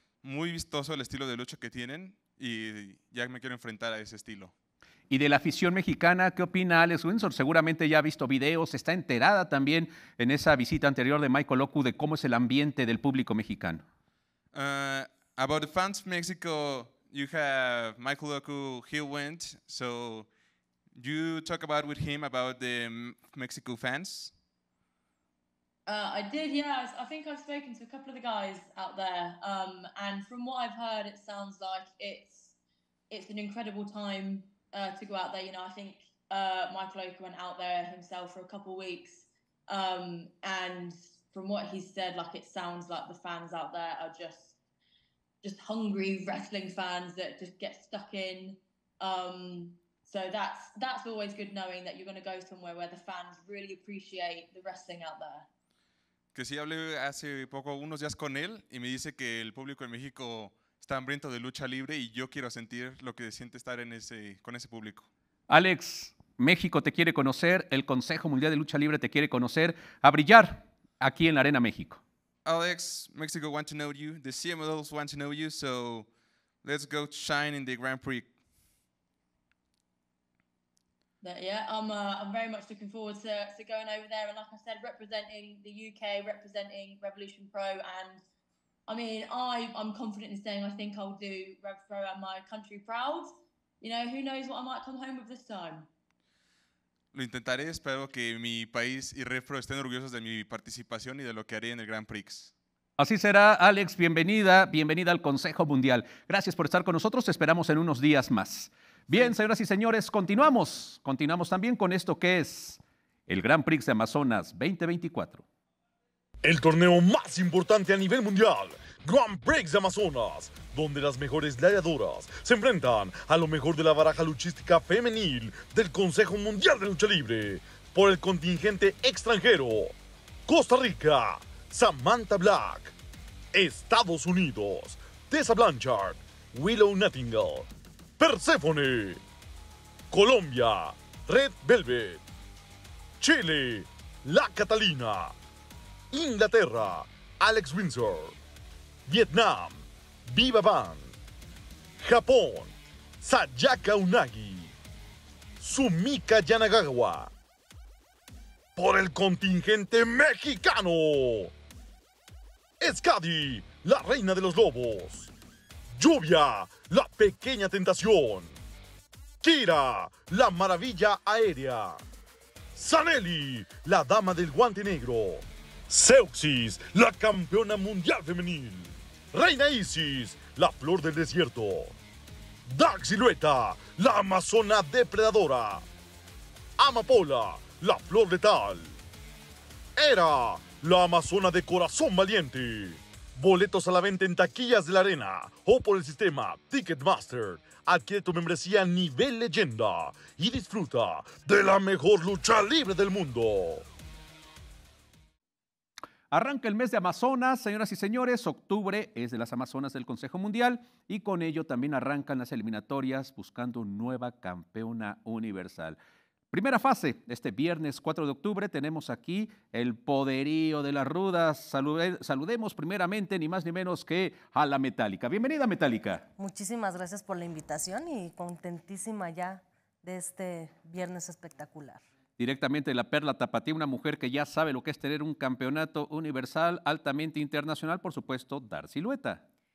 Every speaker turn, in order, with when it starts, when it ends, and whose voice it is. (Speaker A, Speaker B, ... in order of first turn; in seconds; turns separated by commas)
Speaker A: 0.2-4.5, Speaker B: 5.1-13.8, Speaker A: 14.5-20.3, Speaker A: 20.9-24.4, Speaker C: 25.9-32.6, Speaker C: 33.1-44.6, Speaker C: 45.4-55.5, Speaker A: 56.3-65.1, Speaker B: 65.5-72.0, Speaker A: 72.5-78.3, Speaker C: 81.2-88.2, Speaker C: 88.9-95.9, Speaker A: 97.1-102.5, Speaker B: 103.0-115.5, Speaker D: 116.4-129.9, Speaker D: 130.5-132.9, Speaker D: 133.5-139.2, Speaker D: 140.1-142.2, Speaker D: 143.2-145.4, Speaker D: 146.1-148.4, Speaker D: 149.1-151.2, Speaker D: 152.0-154.7, Speaker D: 155.6-157.3, Speaker D: 158.8-161.5, Speaker D: 162.8-165.3, Speaker D: 165.9-168.6, Speaker D: 169.4-172.0, Speaker D: 172.8-181.9, Speaker D: 182.7-185.8, Speaker D: 186.8-189.0, Speaker D: 190.0-203.9, Speaker B: 206.3-216.0, Speaker B: 216.5-226.3, Speaker E: 226.4-232.1, Speaker B: 232.4-239.4